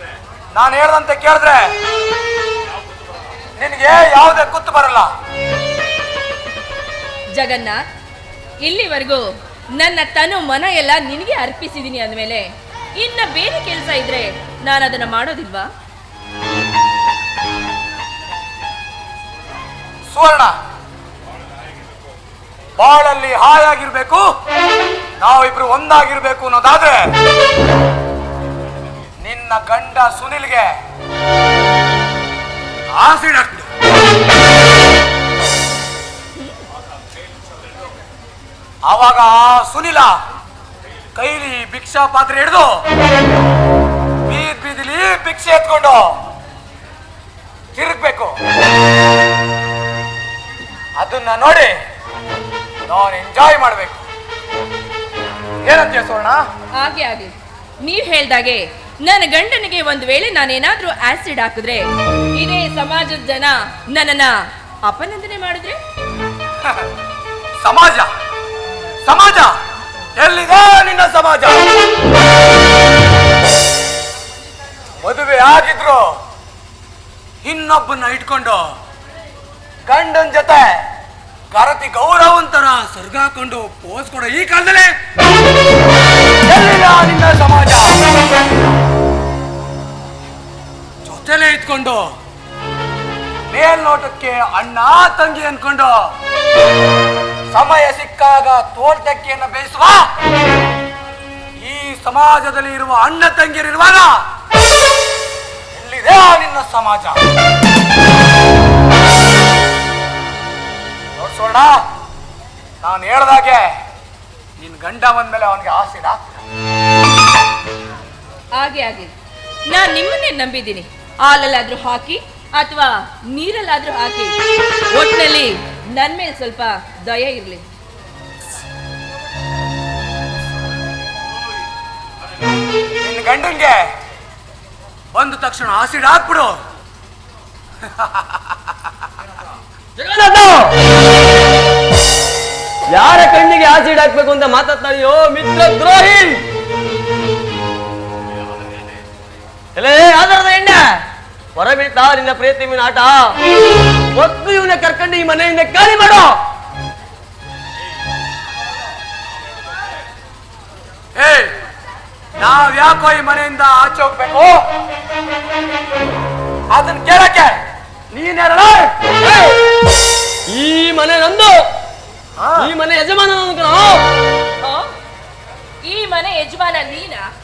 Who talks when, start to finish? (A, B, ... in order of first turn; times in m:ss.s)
0:00.5-0:01.7 A
0:03.6-0:05.1 A
0:07.3-0:07.8 B
0:08.6-0:09.2 B
0:09.8-0:15.7 B
0:20.1-0:20.5 A
0:22.8-0:24.2 A
0:25.2-0:27.1 A
0:29.2-0:30.7 A
0:32.9-0:33.7 A
0:38.8-0:40.2 A
0:41.1-0:42.8 A
0:44.3-0:46.1 A
0:47.7-0:48.4 A
0:51.0-0:51.7 A
0:52.9-0:54.0 A
0:55.6-0:56.4 A
0:56.8-1:05.7 B
1:07.6-1:08.1 A
1:09.0-1:09.6 A
1:10.2-1:11.6 A
1:15.0-1:16.2 A
1:17.4-1:18.7 A
1:19.8-1:20.8 A
1:21.5-1:24.9 A
1:26.5-1:28.0 A
1:31.0-1:32.1 A
1:33.5-1:36.1 A
1:37.5-1:40.1 A
1:41.6-1:44.2 A
1:45.7-1:47.2 A
1:51.2-1:51.8 A
1:52.8-1:53.7 A
1:54.6-1:56.4 A
1:58.6-1:59.1 B
1:59.7-2:04.3 B
2:04.9-2:07.6 B
2:13.0-2:13.8 A
2:15.1-2:16.5 A
2:17.8-2:18.4 A
2:20.0-2:20.8 C
2:22.9-2:26.4 C
2:29.8-2:31.0 C
2:31.6-2:33.3 C
2:34.1-2:36.4 C
2:41.2-2:41.5 A
2:42.4-2:44.6 A
2:46.7-2:47.6 A
2:48.1-2:49.0 A
2:50.5-2:51.6 C
2:52.4-2:52.7 A
2:52.6-2:54.1 C
2:55.8-2:57.3 B